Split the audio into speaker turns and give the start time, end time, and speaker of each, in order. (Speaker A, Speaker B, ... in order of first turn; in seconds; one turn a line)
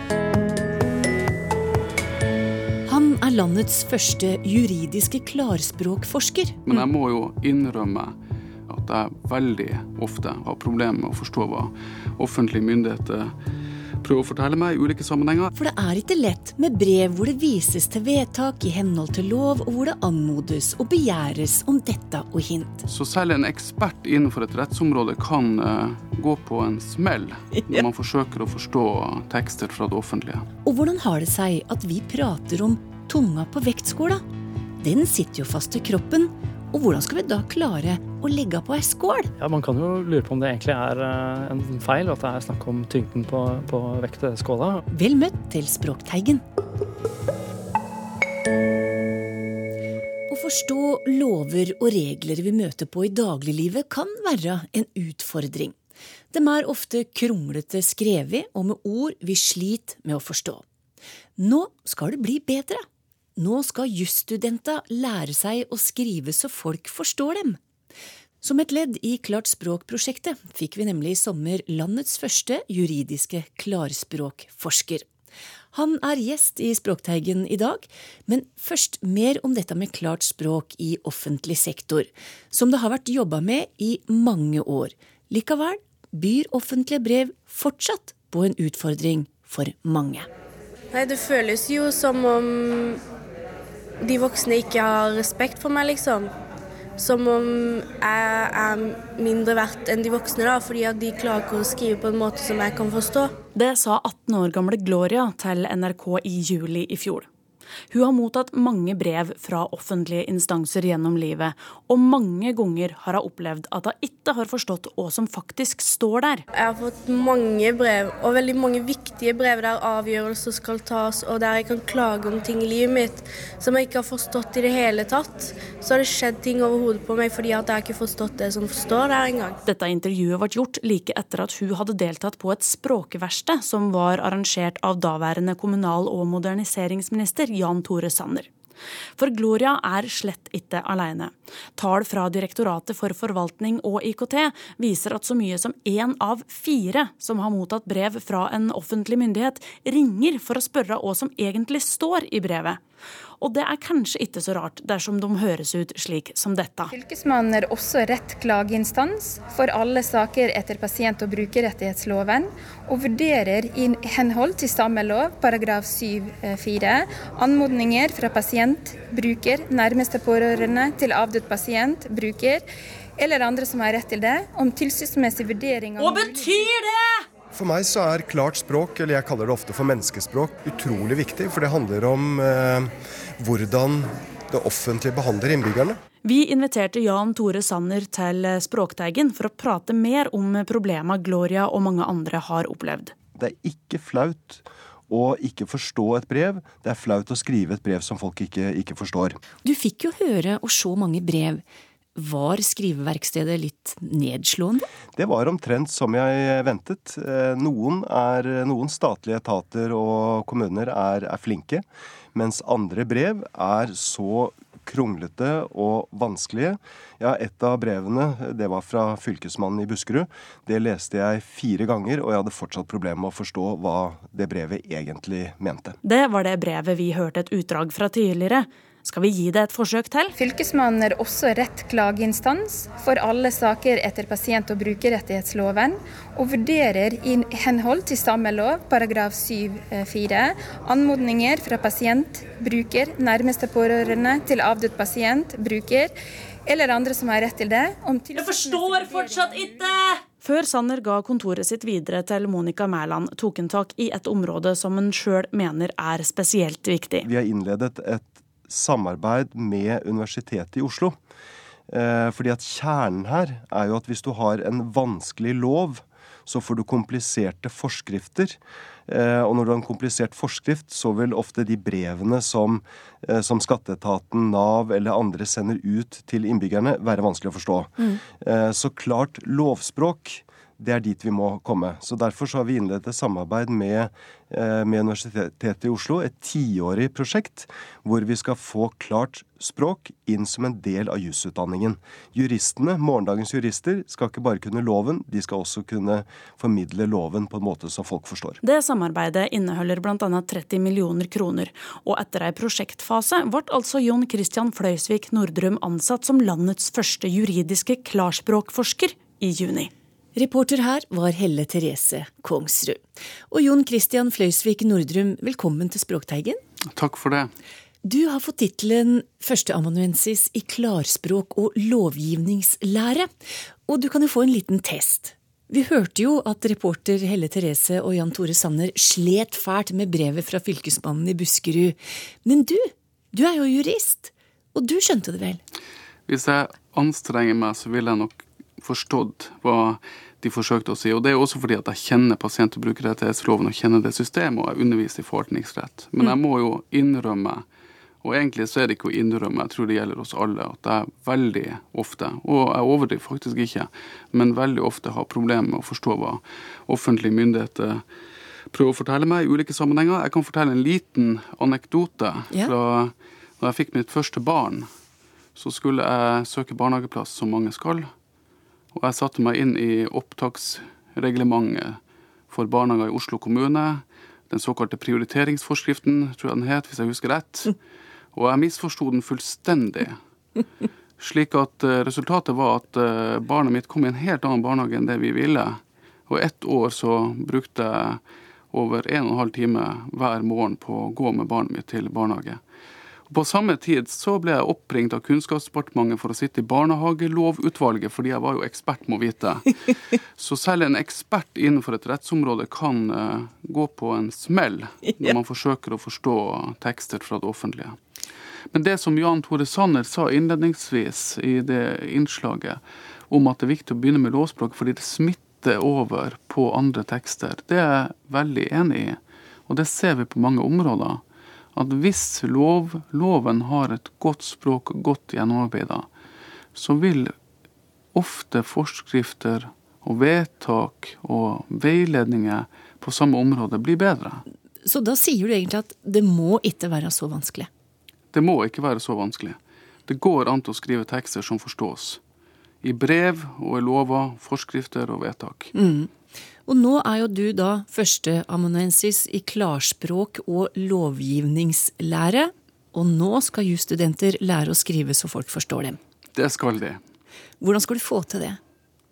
Speaker A: 2.9-6.8
Speaker B: 6.7-8.2
Speaker B: 8.7-13.3
Speaker B: 14.0-15.5
Speaker A: 15.5-22.8
Speaker B: 22.9-30.5
Speaker A: 30.6-34.2
Speaker A: 34.8-39.3
Speaker C: 39.4-44.8
Speaker A: 44.9-46.4
Speaker A: 50.3-55.8
Speaker A: 56.3-60.6
Speaker A: 61.4-62.8
Speaker A: 63.4-67.6
Speaker A: 68.4-75.0
Speaker A: 75.7-90.3
Speaker D: 90.9-93.0
Speaker D: 94.0-96.3
Speaker D: 97.0-103.3
Speaker E: 103.5-107.3
Speaker E: 107.9-116.4
Speaker D: 116.5-129.6
Speaker E: 129.7-138.5
Speaker E: 139.2-152.8
Speaker E: 153.4-156.9
Speaker F: 156.9-172.6
Speaker F: 173.2-176.7
Speaker E: 176.1-176.9
Speaker G: 177.5-186.0
Speaker E: 186.2-193.1
Speaker G: 193.4-199.4
Speaker A: 199.6-201.6
Speaker A: 202.2-204.9
Speaker G: 205.1-225.9
Speaker E: 226.0-230.3
Speaker F: 230.3-246.1
Speaker F: 246.7-250.0
Speaker E: 248.5-249.8
Speaker E: 250.4-257.3
Speaker G: 257.2-261.2
Speaker G: 261.9-298.6
Speaker E: 298.6-309.9
Speaker A: 310.4-316.6
Speaker B: 316.9-317.5
Speaker A: 318.0-323.3
Speaker A: 323.9-335.6
Speaker B: 336.3-347.6
Speaker B: 348.2-358.1
Speaker B: 358.7-364.9
Speaker B: 365.6-368.1
Speaker B: 368.9-377.7
Speaker B: 378.3-380.2
Speaker B: 381.2-392.6
Speaker B: 393.3-408.0
Speaker B: 408.7-421.2
Speaker B: 421.7-426.1
Speaker B: 426.7-427.3
Speaker B: 428.1-434.4
Speaker A: 434.8-437.7
Speaker B: 438.3-442.2
Speaker B: 442.8-445.7
Speaker A: 445.7-446.1
Speaker A: 446.6-456.0
Speaker B: 456.3-457.0
Speaker A: 457.6-458.6